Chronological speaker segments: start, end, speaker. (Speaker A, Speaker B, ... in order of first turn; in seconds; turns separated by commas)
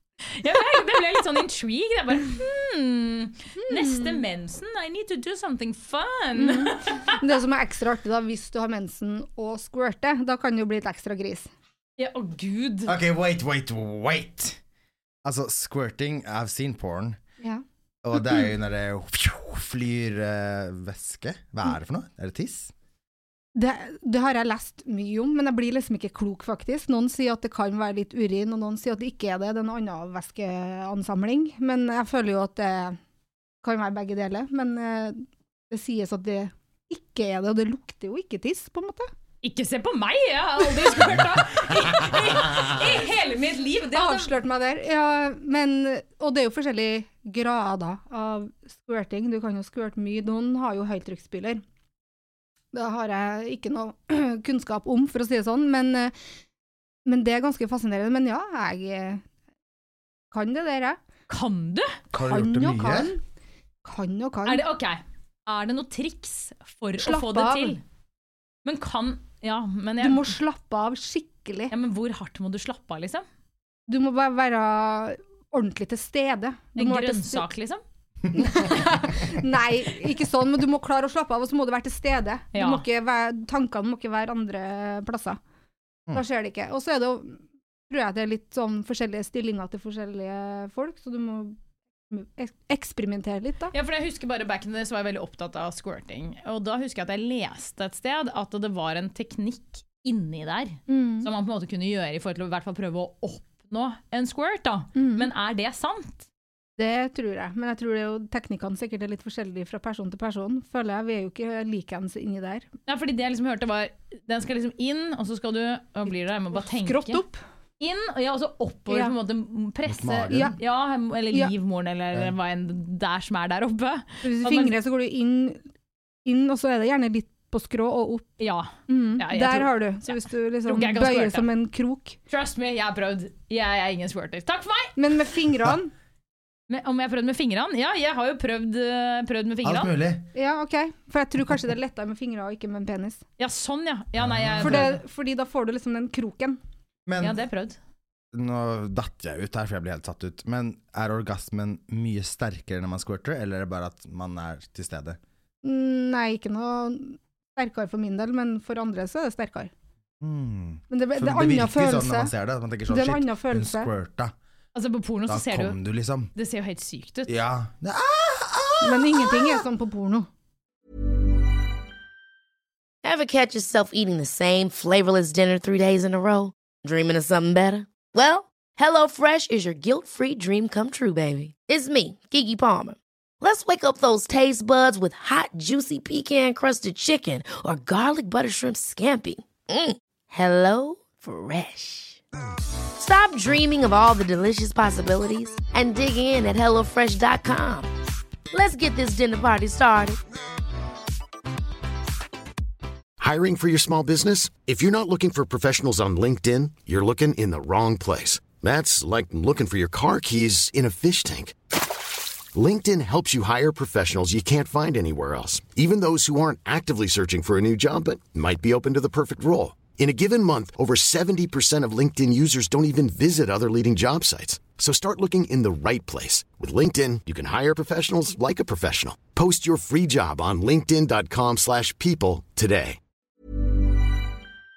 Speaker A: 0.2-7.2, Speaker B: 3.6-4.2, Speaker B: 6.4-11.5, Speaker A: 12.0-12.9, Speaker C: 12.9-14.6, Speaker C: 15.2-17.2, Speaker C: 18.0-22.7, Speaker B: 23.6-33.0, Speaker B: 33.6-39.1, Speaker A: 39.4-44.3, Speaker B: 43.9-51.6, Speaker B: 52.7-56.1, Speaker B: 57.1-59.2, Speaker B: 60.3-61.0, Speaker A: 61.3-61.9, Speaker C: 62.1-63.1, Speaker B: 62.2-63.2, Speaker B: 63.9-64.6, Speaker A: 64.5-67.8, Speaker B: 67.0-67.8, Speaker A: 68.7-70.3, Speaker B: 70.0-71.7, Speaker A: 71.7-73.2, Speaker B: 73.9-77.5, Speaker A: 76.8-77.8, Speaker B: 78.3-85.4, Speaker A: 82.5-82.8, Speaker B: 86.1-91.6, Speaker B: 92.1-93.7, Speaker A: 93.7-106.3, Speaker B: 100.9-101.3, Speaker B: 105.0-105.3, Speaker B: 106.8-112.7, Speaker A: 112.9-117.2, Speaker B: 116.5-117.4, Speaker A: 117.8-124.7, Speaker B: 118.9-119.1, Speaker C: 119.9-120.6, Speaker B: 120.3-120.6, Speaker B: 124.2-125.6, Speaker B: 126.2-132.2, Speaker A: 128.4-130.1, Speaker A: 130.7-131.5, Speaker A: 132.3-134.9, Speaker B: 135.0-135.9, Speaker A: 136.7-139.9, Speaker C: 139.6-140.3, Speaker B: 140.3-143.2, Speaker A: 143.4-145.0, Speaker C: 144.2-144.9, Speaker B: 144.6-146.6, Speaker C: 147.1-147.4, Speaker A: 147.2-147.8, Speaker C: 148.3-155.2, Speaker B: 155.6-159.7, Speaker C: 160.2-164.3, Speaker B: 160.9-162.3, Speaker B: 162.9-163.9, Speaker A: 164.8-165.8, Speaker C: 165.3-166.3, Speaker A: 166.3-167.3, Speaker C: 167.3-169.6, Speaker B: 168.8-170.3, Speaker D: 173.0-192.2, Speaker D: 193.0-197.9, Speaker D: 198.5-200.2, Speaker E: 203.2-211.6, Speaker E: 212.5-233.0